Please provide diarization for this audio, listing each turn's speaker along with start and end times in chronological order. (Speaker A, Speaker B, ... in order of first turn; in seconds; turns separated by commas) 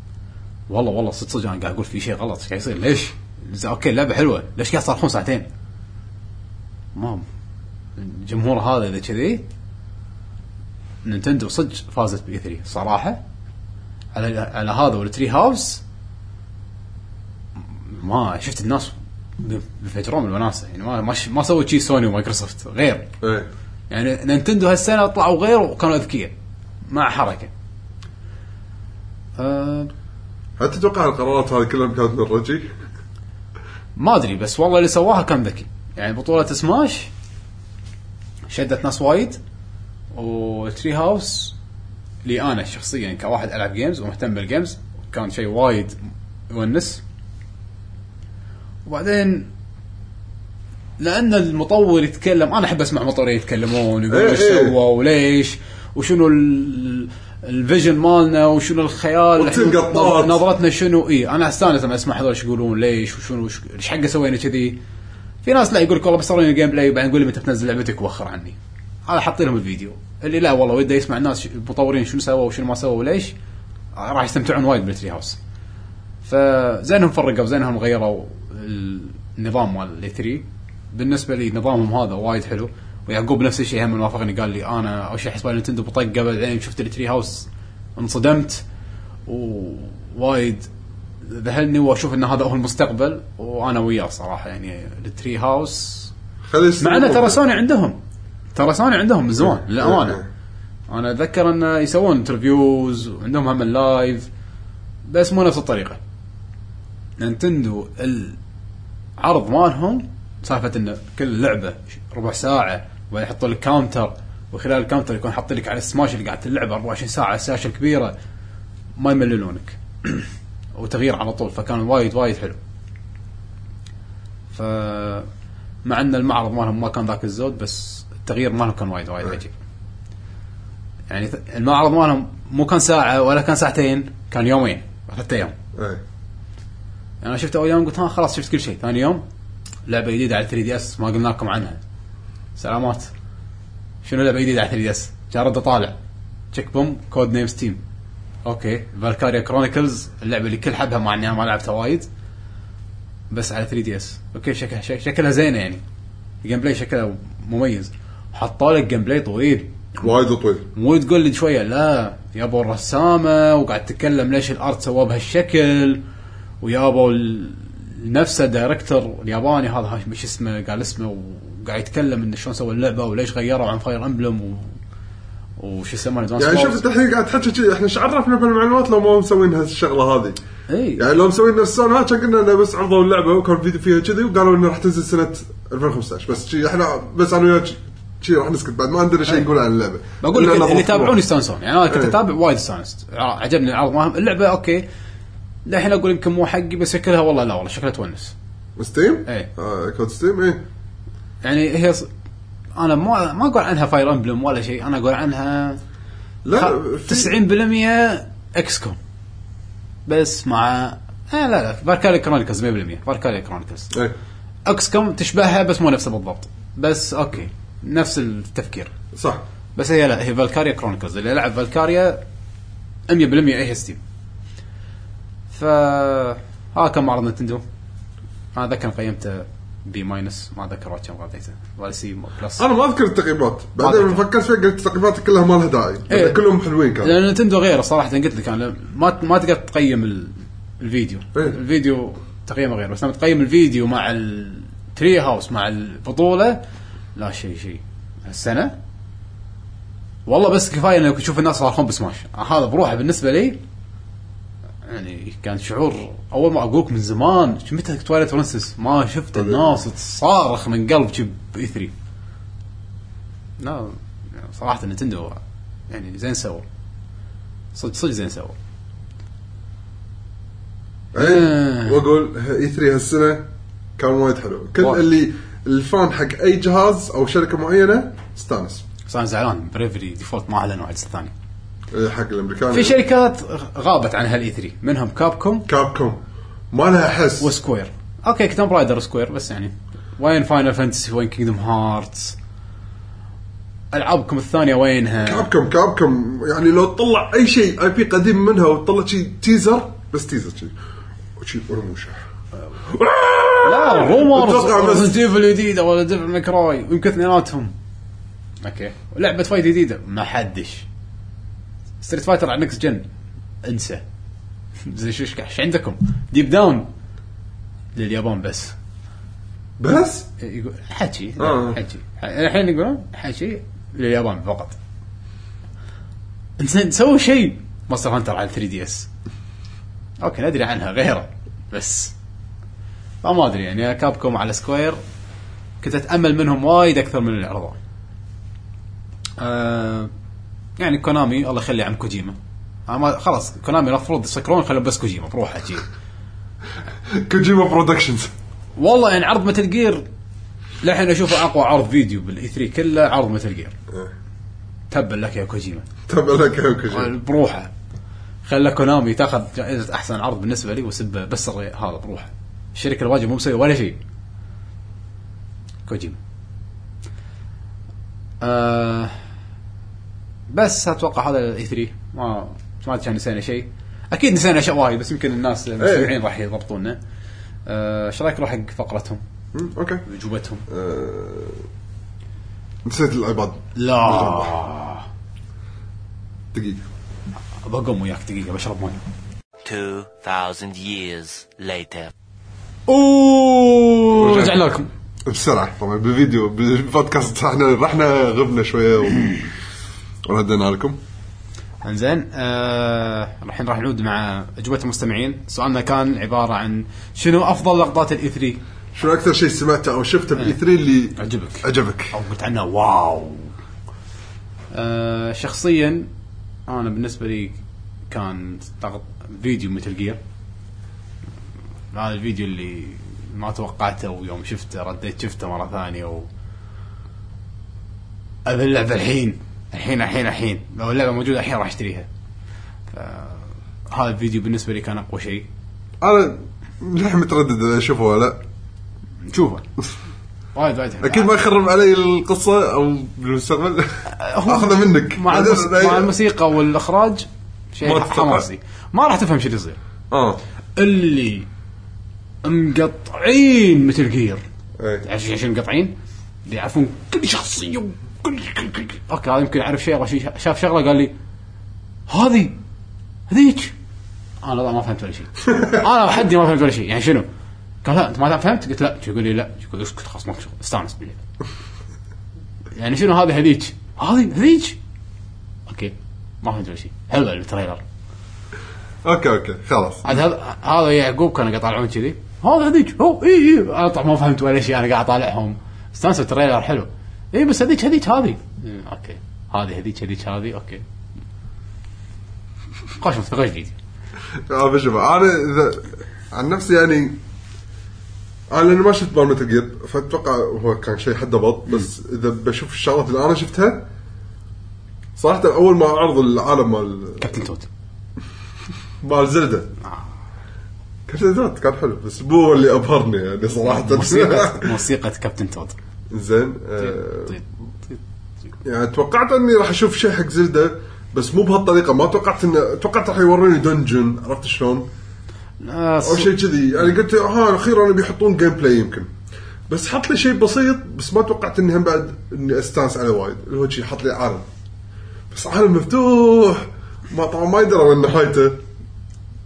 Speaker A: 0.7-5.5, Speaker A: 6.9-7.2, Speaker A: 8.0-9.5, Speaker A: 11.0-13.2, Speaker A: 14.1-15.8, Speaker A: 17.9-23.1, Speaker B: 23.2-23.5, Speaker A: 23.9-26.3, Speaker A: 26.9-27.5, Speaker A: 29.4-29.9, Speaker B: 30.6-32.7, Speaker A: 34.0-37.1, Speaker A: 38.5-39.4, Speaker A: 40.1-41.6, Speaker A: 42.2-46.0, Speaker A: 46.5-47.0, Speaker A: 48.9-49.5, Speaker A: 51.0-64.8, Speaker B: 54.1-54.8, Speaker B: 59.4-60.4, Speaker A: 65.4-73.3, Speaker A: 74.0-75.4, Speaker A: 76.2-88.6, Speaker A: 89.3-90.7, Speaker A: 91.2-96.1, Speaker B: 96.5-97.4, Speaker A: 96.8-98.0, Speaker A: 98.5-100.2, Speaker B: 99.5-100.2, Speaker A: 100.9-104.3, Speaker A: 105.1-106.0, Speaker A: 107.2-108.4, Speaker A: 109.2-118.1, Speaker A: 119.0-122.6, Speaker A: 124.5-125.3, Speaker A: 125.8-129.6, Speaker A: 131.1-135.6, Speaker B: 135.8-136.0, Speaker A: 137.2-139.2, Speaker A: 139.9-141.8, Speaker A: 142.6-143.1, Speaker A: 144.0-146.0, Speaker A: 146.5-147.8, Speaker A: 148.4-152.1, Speaker A: 153.3-155.8, Speaker A: 156.4-160.0, Speaker B: 160.0-160.7, Speaker A: 160.7-166.0, Speaker A: 166.6-174.8, Speaker A: 175.6-176.8, Speaker B: 176.4-180.4, Speaker A: 180.7-181.0, Speaker B: 181.0-191.2, Speaker A: 190.2-194.9, Speaker B: 191.9-192.2, Speaker A: 195.7-198.3, Speaker B: 198.8-200.6, Speaker A: 201.4-202.1, Speaker A: 202.8-205.8, Speaker B: 206.4-207.3, Speaker A: 206.6-209.0, Speaker A: 210.1-213.9, Speaker A: 214.7-218.9, Speaker B: 219.1-219.4, Speaker A: 219.8-222.2, Speaker A: 223.1-224.0, Speaker A: 225.5-227.6, Speaker A: 228.5-232.6, Speaker B: 232.6-237.2, Speaker A: 233.8-234.2, Speaker A: 236.1-236.4, Speaker A: 237.0-246.6, Speaker A: 247.2-248.8, Speaker A: 250.3-253.6, Speaker A: 254.9-261.9, Speaker B: 259.3-259.8, Speaker A: 263.6-266.6, Speaker A: 267.7-268.6, Speaker B: 271.1-278.9, Speaker A: 271.2-272.0, Speaker A: 279.1-281.3, Speaker B: 281.9-283.0, Speaker A: 282.7-285.7, Speaker B: 285.7-287.5, Speaker A: 287.4-292.4, Speaker A: 293.9-295.5, Speaker B: 295.2-300.8, Speaker B: 301.4-302.2, Speaker B: 302.8-305.2, Speaker A: 303.6-307.7, Speaker A: 308.6-310.9, Speaker A: 312.0-313.1, Speaker A: 313.6-314.0, Speaker A: 314.8-316.9, Speaker A: 317.9-318.8, Speaker B: 319.8-320.3, Speaker A: 320.4-324.8, Speaker B: 321.4-321.8, Speaker A: 326.6-329.1, Speaker A: 330.2-332.1, Speaker A: 333.2-335.0, Speaker A: 335.8-337.8, Speaker A: 339.4-340.1, Speaker A: 340.8-345.9, Speaker B: 347.1-348.3, Speaker A: 348.8-350.1, Speaker A: 350.8-353.8, Speaker A: 354.9-355.9, Speaker B: 356.1-357.1, Speaker A: 356.9-357.7, Speaker A: 358.5-364.0, Speaker A: 365.9-366.2, Speaker A: 368.4-369.1, Speaker A: 370.5-377.0, Speaker B: 375.8-376.1, Speaker A: 377.7-379.2, Speaker B: 379.5-380.1, Speaker A: 380.1-380.6, Speaker B: 380.7-381.6, Speaker B: 382.9-384.5, Speaker A: 383.8-385.1, Speaker B: 386.5-386.9, Speaker A: 387.6-389.0, Speaker C: 389.6-392.1, Speaker A: 392.9-394.9, Speaker B: 394.1-394.7, Speaker B: 395.3-399.4, Speaker B: 400.3-401.0, Speaker A: 401.8-408.6, Speaker B: 408.9-412.1, Speaker A: 411.2-413.5, Speaker A: 414.7-416.1, Speaker A: 416.7-417.6, Speaker A: 418.1-420.2, Speaker A: 421.9-426.3, Speaker A: 428.5-432.1, Speaker A: 432.9-435.5, Speaker B: 436.0-438.4, Speaker A: 439.3-439.6, Speaker A: 440.6-441.3, Speaker B: 441.0-443.9, Speaker A: 444.1-449.8, Speaker B: 444.5-446.1, Speaker B: 447.8-448.4, Speaker B: 450.1-450.4, Speaker A: 450.8-451.5, Speaker A: 452.4-454.4, Speaker B: 454.8-455.1, Speaker A: 455.0-455.9, Speaker A: 456.5-461.1, Speaker A: 462.1-462.6, Speaker A: 463.3-463.7, Speaker A: 464.4-467.3, Speaker A: 467.8-471.2, Speaker A: 472.7-474.8, Speaker A: 475.7-477.8, Speaker B: 479.0-480.2, Speaker A: 480.0-490.9, Speaker A: 493.0-493.8, Speaker B: 494.5-497.2, Speaker B: 498.5-503.9, Speaker B: 505.2-507.3, Speaker A: 507.2-507.7, Speaker B: 509.0-509.7, Speaker B: 511.1-514.7, Speaker A: 513.7-515.8, Speaker B: 516.1-517.4, Speaker A: 516.8-518.0, Speaker B: 518.6-524.9, Speaker A: 525.6-526.3, Speaker B: 526.0-529.1, Speaker B: 529.7-534.5, Speaker B: 535.3-538.6